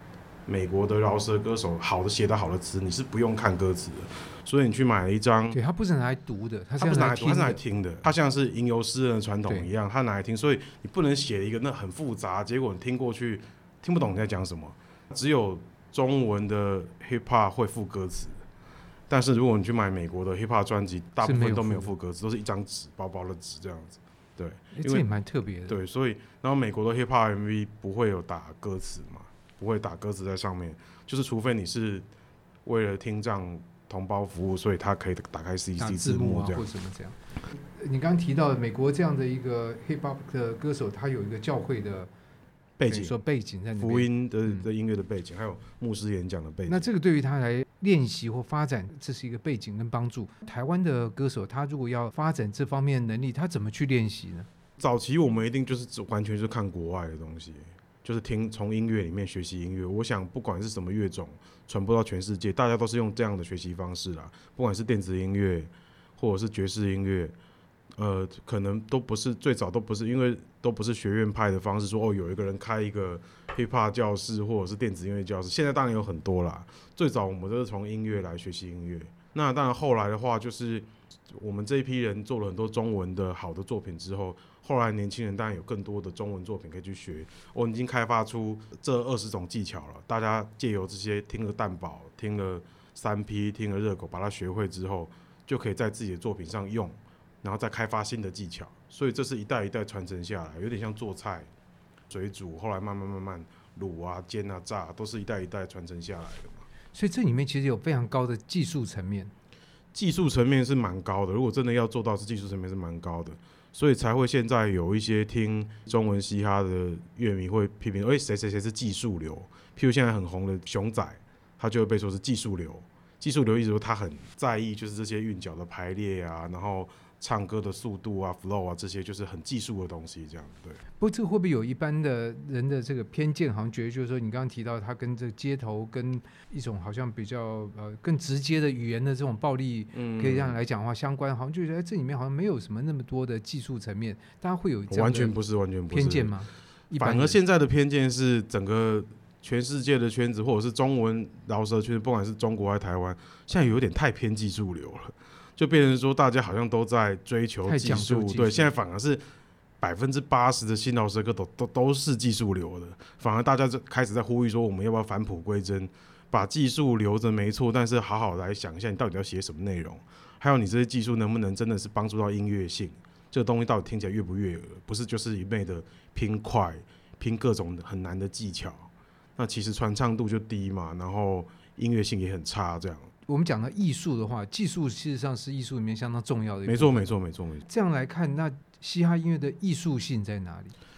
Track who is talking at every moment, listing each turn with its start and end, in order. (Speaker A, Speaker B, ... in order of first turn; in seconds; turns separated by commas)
Speaker A: 0.5-5.6, Speaker B: 5.5-7.6, Speaker A: 6.8-18.4, Speaker A: 19.1-25.1, Speaker B: 21.2-21.9, Speaker B: 24.7-25.8, Speaker A: 25.7-32.1, Speaker A: 32.6-36.6, Speaker B: 35.8-42.1, Speaker A: 42.8-43.1, Speaker B: 42.9-44.6, Speaker A: 43.8-46.9, Speaker B: 46.7-54.5, Speaker A: 54.8-67.3, Speaker A: 68.0-101.5, Speaker A: 102.1-106.7, Speaker B: 106.9-109.3, Speaker A: 109.9-130.8, Speaker B: 131.0-145.3, Speaker A: 139.9-140.6, Speaker A: 144.9-146.3, Speaker B: 145.9-147.4, Speaker A: 146.9-159.2, Speaker B: 157.7-158.7, Speaker A: 159.8-183.1, Speaker B: 183.3-187.1, Speaker A: 186.7-187.6, Speaker B: 187.7-190.8